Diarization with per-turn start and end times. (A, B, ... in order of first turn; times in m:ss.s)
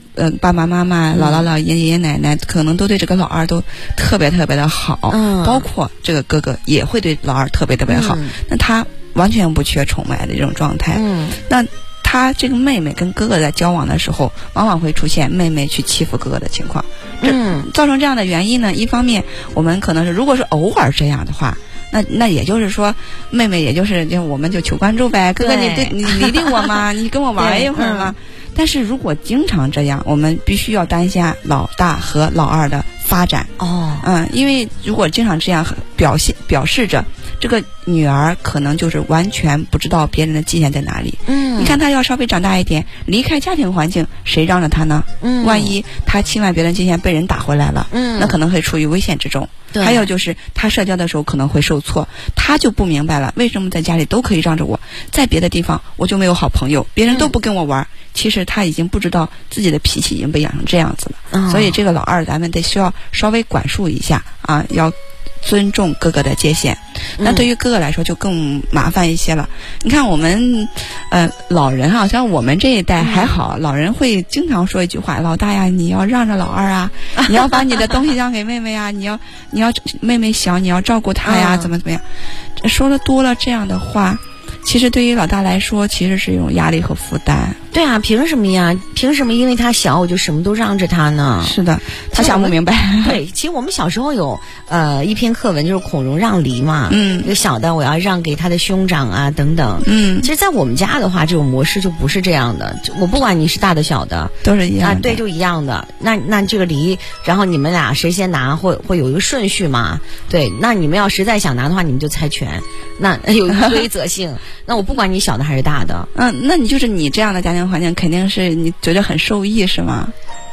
0:00.2-1:22.0 A
0:01.1-0:01.5 B
0:05.1-0:05.6 B
0:07.9-0:08.4 B
0:10.9-0:11.4 B
0:17.2-0:17.7 B
0:25.4-0:26.8 B
0:27.4-0:28.1 B
0:33.6-0:34.1 B
0:41.2-0:41.8 B
0:45.2-0:45.8 B
0:47.9-0:48.4 B
0:49.7-0:50.1 B
1:01.3-1:01.8 B
1:07.2-1:07.5 B
1:13.0-1:13.4 B
1:21.2-1:21.7 B
1:22.6-1:27.6 A
1:27.7-1:31.6 B
1:31.4-1:33.2 A
1:32.1-1:56.1 B
1:36.9-1:37.3 A
1:39.8-1:40.3 A
1:44.4-1:45.2 A
1:56.1-2:00.1 A